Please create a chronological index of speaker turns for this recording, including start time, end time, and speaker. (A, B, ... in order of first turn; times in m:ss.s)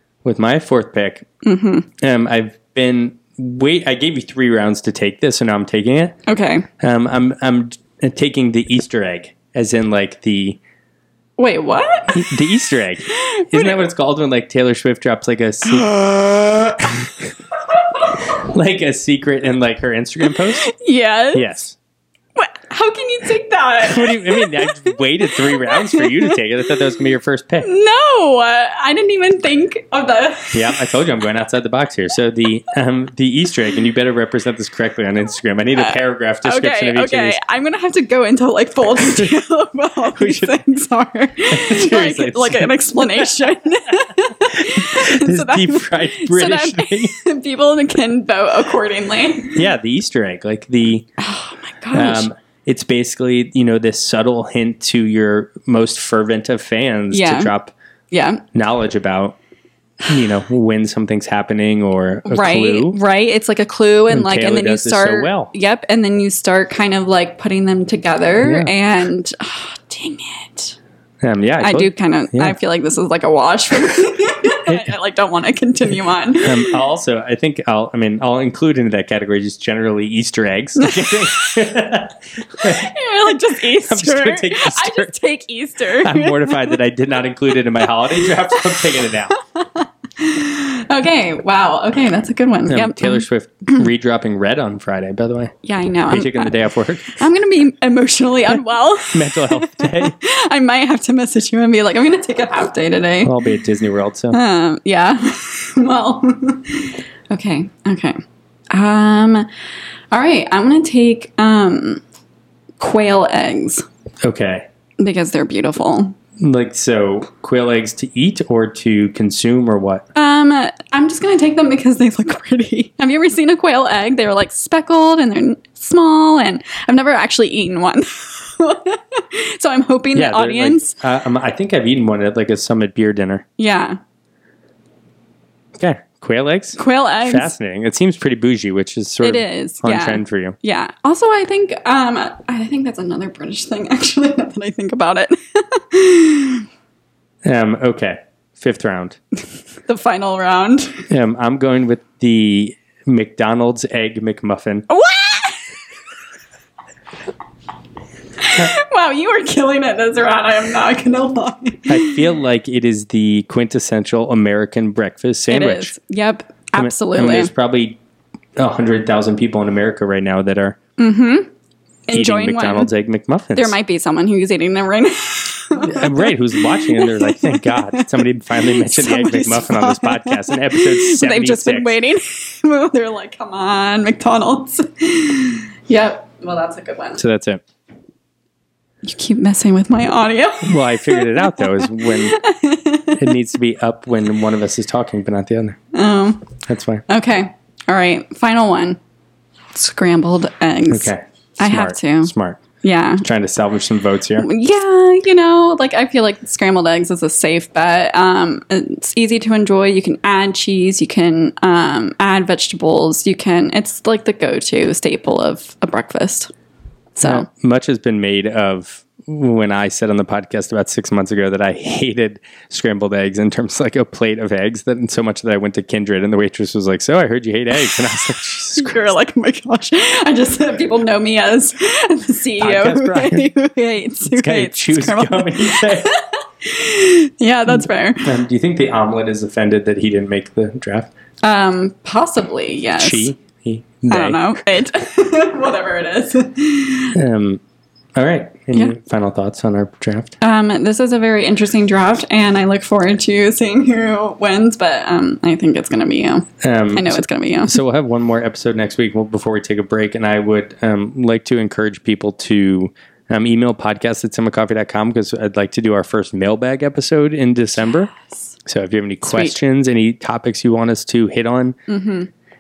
0:00.2-0:01.3 A
0:01.4-0:01.9 B
0:02.0-0:06.2 A
0:06.3-0:06.7 B
0:06.8-0:10.6 A
0:11.4-0:12.2 B
0:12.1-0:16.0 A
0:13.1-0:13.9 B
0:15.7-0:17.0 B
0:16.8-0:17.1 A
0:18.3-0:20.7 A
0:20.3-0:21.5 B
0:21.3-0:21.8 A
0:22.4-0:26.4 B
0:23.8-0:27.7 A
0:27.6-0:30.9 B
0:30.5-0:37.4 A
0:35.8-0:49.7 B
0:40.2-0:40.5 A
0:41.5-0:43.3 A
0:44.6-0:47.2 A
0:49.6-0:51.1 A
0:51.2-0:52.3 B
0:51.9-0:57.7 A
0:57.1-0:57.5 B
0:58.1-0:58.4 B
0:58.6-0:59.4 A
1:00.0-1:03.0 A
1:02.3-1:10.8 B
1:04.1-1:05.5 A
1:08.4-1:08.7 A
1:11.2-1:12.6 A
1:11.6-1:16.8 B
1:16.4-1:22.9 A
1:20.8-1:21.5 B
1:22.6-1:26.8 B
1:23.5-1:25.2 A
1:26.0-1:29.4 A
1:27.8-1:33.9 B
1:32.7-1:35.5 A
1:35.6-1:43.4 B
1:36.1-1:37.2 A
1:39.1-1:40.1 A
1:43.2-1:44.4 A
1:44.3-1:48.2 B
1:48.7-1:49.5 B
1:50.1-1:52.0 B
1:52.8-1:53.8 B
1:54.2-1:54.7 A
1:55.0-1:56.2 B
1:56.4-2:00.0 A
2:00.2-2:11.0 B
2:10.2-2:13.4 A
2:13.6-2:14.0 B
2:15.8-2:20.6 A
2:16.8-2:17.5 B
2:19.2-2:26.6 B
2:27.4-2:29.2 A
2:29.9-2:31.1 B
2:31.1-2:34.9 A
2:34.9-2:35.8 B
2:38.4-2:42.2 B
2:41.9-2:45.9 A
2:45.5-2:47.5 B
2:46.8-2:48.0 A
2:48.6-2:50.8 A
2:51.0-2:51.5 B
2:52.1-2:52.9 B
2:52.1-2:53.8 A
2:53.6-3:07.2 B
2:55.8-3:01.9 A
3:07.2-3:07.6 A
3:09.0-3:13.4 B
3:10.6-3:12.4 A
3:13.2-3:15.8 A
3:15.9-3:16.5 B
3:16.7-3:17.0 A
3:17.1-3:19.0 B
3:19.7-3:23.2 B
3:20.9-3:22.6 A
3:23.2-3:24.5 A
3:24.4-3:36.5 B
3:37.2-3:37.5 B
3:37.2-3:49.1 A
3:47.8-3:48.1 B
3:48.8-3:58.4 B
3:52.6-3:53.5 A
3:54.3-3:56.1 A
3:57.7-4:01.1 A
4:01.4-4:03.3 B
4:03.0-4:04.5 A
4:04.1-4:07.2 B
4:07.2-4:07.6 A
4:08.2-4:10.3 A
4:10.4-4:17.8 B
4:16.6-4:28.1 A
4:27.9-4:28.4 B
4:28.7-4:31.8 A
4:29.2-4:29.6 B
4:31.9-4:32.3 B